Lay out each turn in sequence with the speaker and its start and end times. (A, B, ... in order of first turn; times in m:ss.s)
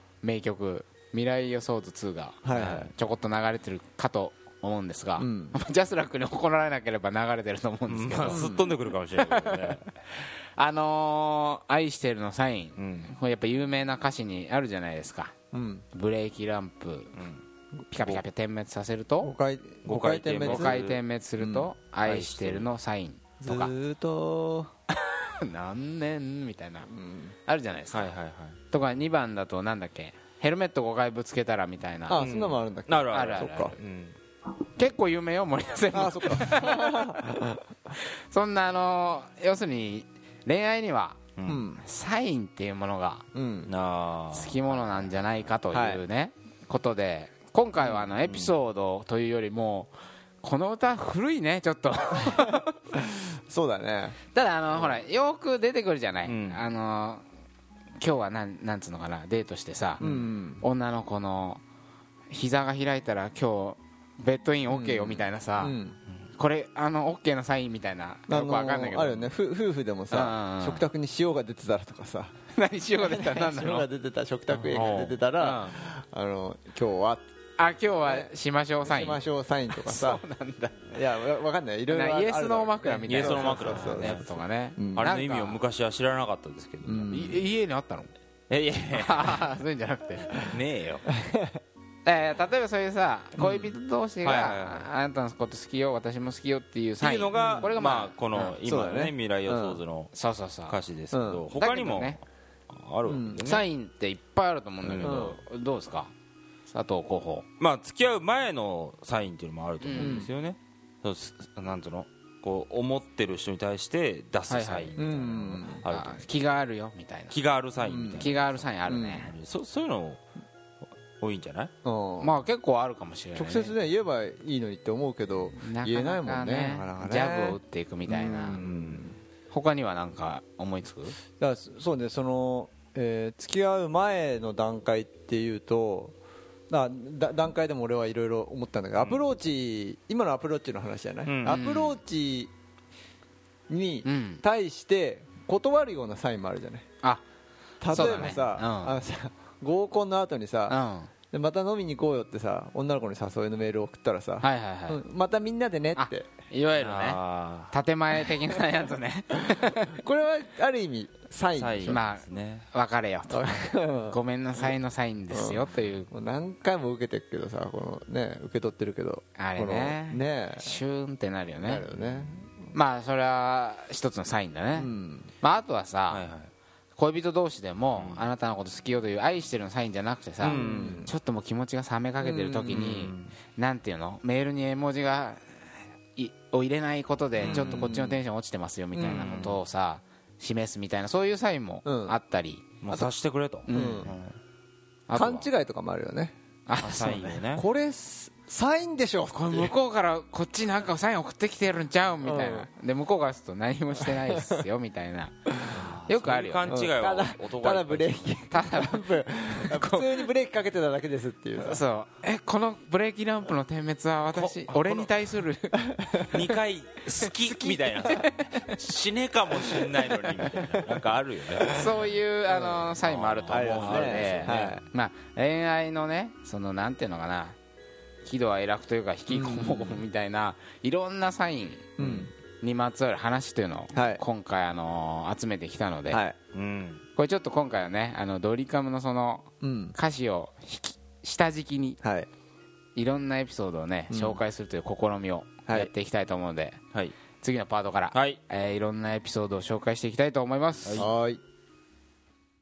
0:00.2-0:08.5 A
0:02.4-0:02.9 B
0:05.2-0:05.6 B
0:07.9-0:09.9 C
0:08.2-0:08.7 B
0:09.2-0:15.3 A
0:12.8-0:13.1 C
0:15.5-0:15.8 B
0:15.9-0:17.2 A
0:17.1-0:17.4 C
0:17.9-0:19.3 A
0:18.0-0:18.2 C
0:19.2-0:20.8 B
0:19.8-0:21.0 C
0:20.4-0:23.7 A
0:21.4-0:21.7 B
0:22.0-0:22.7 C
0:23.4-0:24.7 B
0:25.1-0:26.9 A
0:26.9-0:27.3 B
0:27.4-0:28.1 A
0:27.9-0:28.6 C
0:28.7-0:32.3 A
0:32.1-0:33.7 B
0:32.2-0:34.2 C
0:33.1-0:33.8 A
0:34.7-0:37.2 A
0:35.9-0:37.6 B
0:38.3-0:41.2 A
0:41.4-0:41.7 C
0:41.4-0:41.8 B
0:41.8-0:43.2 A
0:43.3-0:43.7 B
0:43.7-0:45.1 C
0:44.3-0:52.7 A
0:45.7-0:46.0 B
0:47.8-0:48.1 B
0:48.2-0:48.5 C
0:52.9-0:54.2 B
0:54.3-0:57.2 A
0:56.2-0:56.6 C
0:58.0-1:00.1 A
1:00.0-1:00.6 B
1:00.6-1:01.6 A
1:02.3-1:05.8 A
1:04.7-1:06.0 B
1:06.3-1:09.3 A
1:08.3-1:12.3 B
1:10.1-1:10.8 A
1:12.5-1:13.9 A
1:13.0-1:17.3 B
1:14.5-1:15.2 C
1:15.4-1:15.8 A
1:17.6-1:21.0 A
1:18.0-1:18.3 B
1:18.8-1:20.2 B
1:20.9-1:24.2 B
1:21.9-1:25.6 A
1:23.1-1:24.4 C
1:24.8-1:25.1 B
1:24.9-1:27.3 C
1:26.8-1:27.4 B
1:27.1-1:28.1 A
1:28.5-1:29.4 C
1:28.9-1:30.4 A
1:30.4-1:31.1 C
1:31.2-1:31.5 B
1:32.0-1:38.6 A
1:33.4-1:34.9 C
1:37.0-1:40.1 C
1:37.3-1:37.7 B
1:38.6-1:39.8 B
1:40.1-1:40.8 A
1:40.7-1:42.2 C
1:41.1-1:41.5 B
1:41.5-1:42.2 A
1:42.7-1:43.6 C
1:43.0-1:43.4 B
1:43.4-1:46.1 A
1:44.8-1:45.2 C
1:45.0-1:45.4 B
1:46.7-1:47.4 A
1:47.6-1:56.2 C
1:49.8-1:50.2 A
1:50.0-1:50.3 B
1:54.5-1:54.9 A
1:55.0-1:55.8 B
1:55.8-1:57.4 A
1:57.3-1:58.6 C
1:57.8-1:58.3 B
1:58.1-1:59.3 A
1:58.9-1:59.2 B
1:59.2-2:00.2 C
2:01.2-2:01.7 C
2:01.8-2:02.4 B
2:02.2-2:03.7 A
2:03.3-2:09.2 B
2:05.6-2:08.6 A
2:08.5-2:09.1 C
2:09.5-2:11.2 A
2:11.4-2:16.1 B
2:16.7-2:22.5 B
2:21.2-2:21.6 C
2:21.4-2:22.0 A
2:23.7-2:26.8 B
2:24.0-2:24.4 A
2:27.8-2:30.8 B
2:27.9-2:29.0 A
2:27.9-2:28.4 C
2:30.7-2:31.1 A
2:31.3-2:36.3 B
2:34.4-2:35.0 A
2:36.0-2:40.0 A
2:36.8-2:37.7 C
2:39.5-2:42.0 B
2:41.5-2:42.6 C
2:41.9-2:46.1 A
2:43.3-2:44.7 B
2:45.3-2:50.7 B
2:49.4-2:51.8 A
2:51.6-2:52.5 B
2:52.7-2:56.2 A
2:54.8-2:55.3 B
2:56.1-2:56.5 C
2:56.9-3:05.5 A
2:57.9-2:58.3 C
3:00.4-3:01.1 C
3:00.4-3:01.1 B
3:02.2-3:02.7 B
3:02.7-3:03.3 C
3:06.2-3:13.0 A
3:07.4-3:08.0 C
3:07.4-3:08.2 B
3:08.9-3:09.3 B
3:09.0-3:09.6 C
3:11.8-3:12.2 B
3:12.8-3:14.3 C
3:13.6-3:14.2 A
3:13.7-3:14.1 B
3:15.1-3:15.5 A
3:15.1-3:16.3 B
3:16.7-3:17.4 A
3:16.8-3:17.6 C
3:17.5-3:19.7 B
3:19.3-3:26.7 A
3:22.2-3:22.7 B
3:24.0-3:24.6 B
3:25.7-3:28.4 C
3:26.6-3:31.8 B
3:28.5-3:30.3 A
3:31.6-3:36.5 A
3:34.3-3:35.1 C
3:35.9-3:36.2 B
3:36.3-3:42.0 C
3:37.6-3:38.2 A
3:37.6-3:38.1 B
3:41.7-3:47.6 A
3:42.5-3:42.9 B
3:43.0-3:44.8 C
3:43.5-3:44.8 B
3:48.2-3:56.2 A
3:49.3-3:50.0 B
3:52.0-3:52.3 B
3:53.9-3:54.2 B
3:56.1-3:56.4 B
3:56.5-3:57.0 C
3:57.1-4:02.0 A
3:59.6-4:00.0 B
4:02.0-4:02.3 B
4:02.9-4:06.8 A
4:04.1-4:04.4 B
4:07.4-4:11.0 A
4:08.1-4:08.4 C
4:11.0-4:11.4 B